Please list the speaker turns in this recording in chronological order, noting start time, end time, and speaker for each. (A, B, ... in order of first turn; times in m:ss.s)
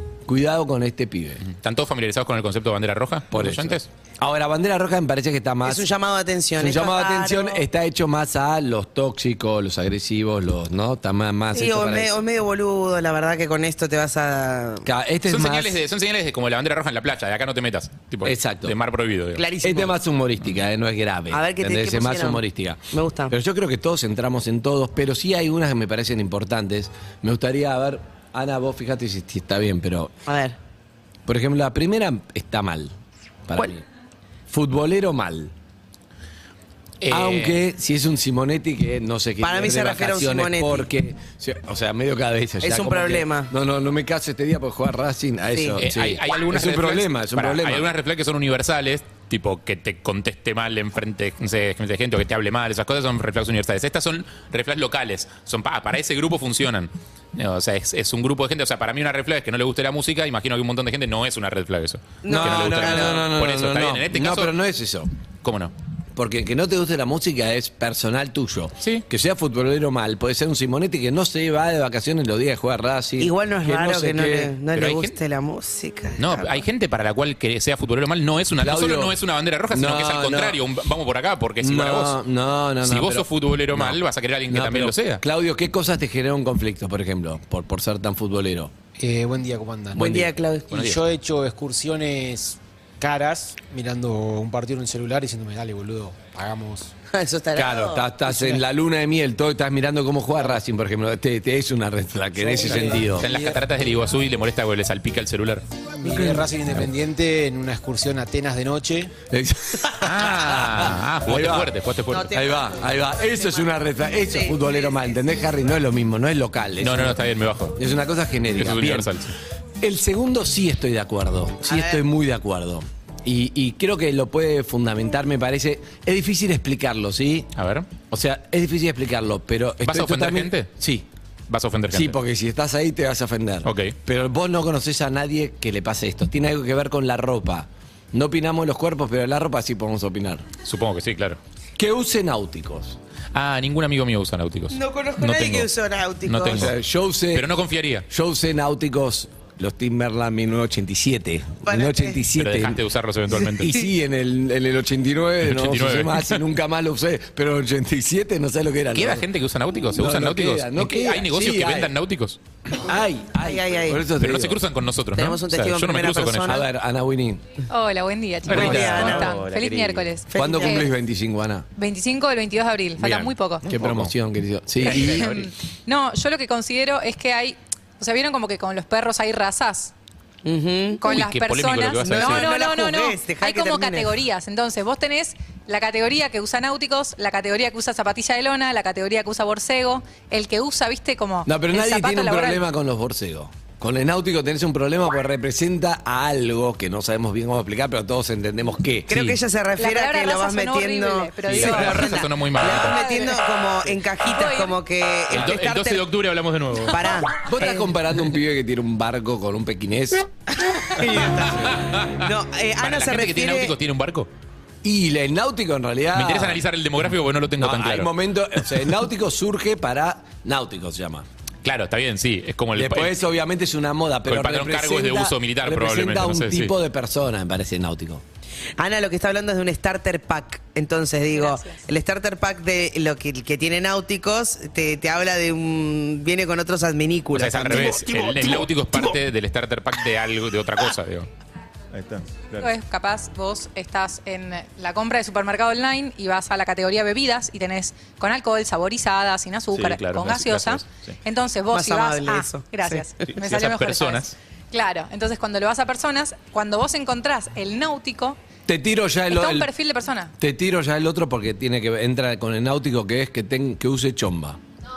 0:00.3-0:01.4 A
0:01.4-0:03.9 B
0:03.3-0:05.9 A
0:05.6-0:07.6 C
0:06.6-0:12.1 A
0:11.5-0:14.9 C
0:14.8-0:15.8 A
0:15.3-0:19.4 B
0:18.2-0:18.8 A
0:19.4-0:19.9 C
0:19.6-0:30.1 A
0:21.3-0:23.3 C
0:30.3-0:30.6 C
0:31.3-0:33.0 A
0:33.5-0:33.9 A
0:34.5-0:35.5 A
0:37.0-0:37.6 B
0:37.1-0:47.9 A
0:39.4-0:40.9 C
0:42.6-0:43.5 C
0:45.5-0:45.8 C
0:45.8-1:04.5 B
1:02.2-1:03.2 C
1:02.3-1:05.1 A
1:05.4-1:05.7 B
1:06.2-1:14.5 A
1:08.8-1:09.0 B
1:13.2-1:16.6 C
1:14.7-1:15.2 B
1:16.2-1:22.2 B
1:18.6-1:19.2 A
1:19.7-1:20.6 A
1:21.6-1:28.7 A
1:22.8-1:25.2 B
1:29.0-1:36.9 D
1:29.9-1:30.3 A
1:30.0-1:30.7 C
1:30.7-1:31.0 B
1:37.1-1:38.1 C
1:37.6-1:43.3 A
1:42.4-1:43.8 D
1:42.7-1:45.7 B
1:46.0-1:49.1 D
1:46.0-1:46.9 A
1:49.3-1:51.7 A
1:50.0-1:52.4 B
1:52.1-1:55.1 C
1:52.3-1:57.2 A
1:56.8-1:57.8 B
1:57.8-1:59.1 A
1:58.6-1:59.4 B
1:59.8-2:07.5 A
2:01.7-2:02.0 C
2:07.6-2:07.9 B
2:08.1-2:11.1 A
2:09.8-2:10.7 B
2:11.5-2:12.2 B
2:11.9-2:20.5 A
2:13.6-2:14.0 B
2:20.6-2:21.4 B
2:21.8-2:23.0 A
2:23.3-2:25.7 B
2:24.7-2:26.7 C
2:26.3-2:26.7 B
2:26.5-2:27.5 A
2:27.3-2:28.1 B
2:28.1-2:32.8 A
2:31.7-2:32.2 C
2:32.4-2:33.7 B
2:33.3-2:39.3 A
2:35.4-2:36.4 B
2:39.0-2:42.4 B
2:39.9-2:41.9 A
2:42.7-2:44.6 A
2:43.4-2:44.0 C
2:44.2-2:46.6 B
2:45.2-2:46.6 C
2:46.4-2:47.4 A
2:47.7-2:50.9 E
2:48.5-2:50.1 B
2:48.5-2:49.2 A
2:48.5-2:49.3 C
2:50.3-2:50.9 C
2:50.3-2:51.7 A
2:51.8-2:53.6 E
2:53.0-2:55.4 A
2:53.7-2:54.1 B
2:54.8-2:55.5 B
2:55.1-2:59.9 E
3:00.4-3:01.0 C
3:01.0-3:12.6 E
3:01.1-3:02.5 B
3:02.1-3:04.1 C
3:11.5-3:19.4 A
3:19.1-3:26.0 C
3:19.8-3:23.4 E
3:21.5-3:23.0 B
3:24.2-3:24.7 E
3:25.3-3:27.2 B
3:26.9-3:27.9 C
3:27.4-3:30.3 A
3:30.6-3:33.7 C
3:32.8-3:34.3 B
3:34.8-3:36.6 A
3:36.2-3:38.1 B
3:37.6-3:41.3 A
3:41.6-3:43.1 B
3:42.8-3:48.2 A
3:44.3-3:46.7 B
3:48.8-3:58.2 C
3:51.3-3:51.8 E
3:57.3-4:01.3 B
4:02.6-4:18.4 E
4:09.7-4:11.2 B
4:11.7-4:13.1 C
4:13.4-4:14.3 B
4:18.7-4:19.7 A
4:19.3-4:20.3 E
4:20.4-4:24.6 A